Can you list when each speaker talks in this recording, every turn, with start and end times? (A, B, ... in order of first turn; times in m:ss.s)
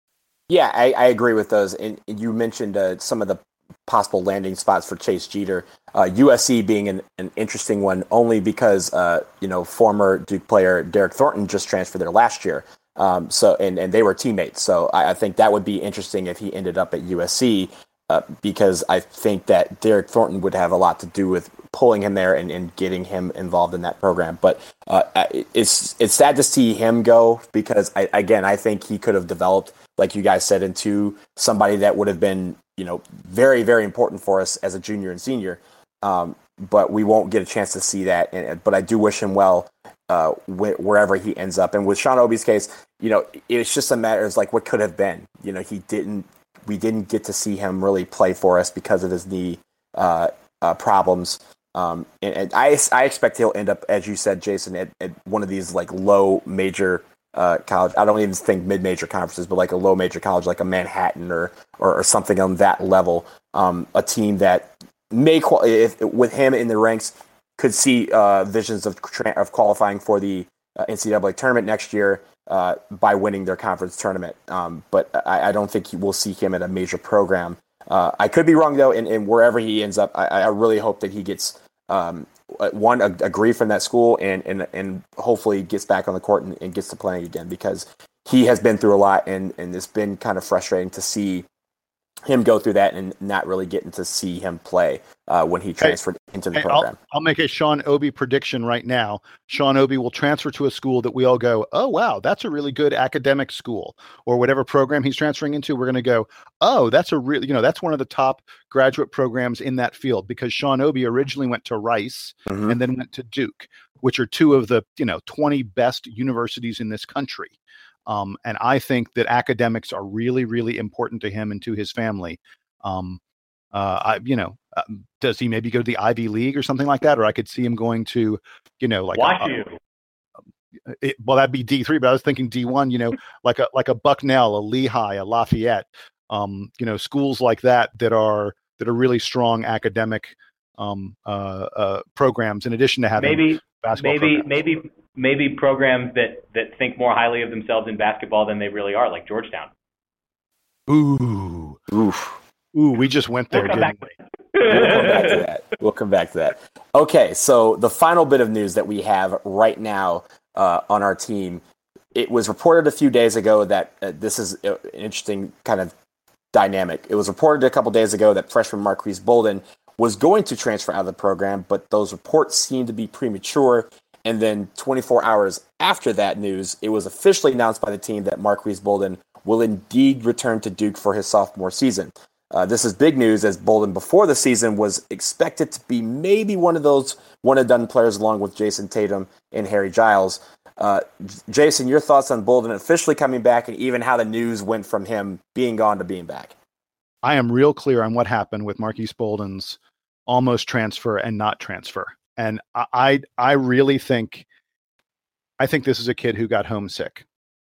0:00.5-1:31.4 A
1:32.3-1:36.9 A
1:36.5-1:57.5 B
1:52.5-1:52.8 A
1:58.1-2:03.2 B
2:03.7-2:09.5 B
2:09.2-2:09.8 C
2:11.0-2:24.5 B
2:23.2-2:29.7 C
2:30.9-2:31.8 B
2:31.9-2:32.3 A
2:32.7-2:34.1 B
2:33.5-2:34.0 C
2:34.5-2:35.4 C
2:34.7-2:41.6 A
2:42.1-2:45.9 A
2:46.5-3:16.5 A
3:17.2-3:24.4 B
3:25.6-3:27.2 B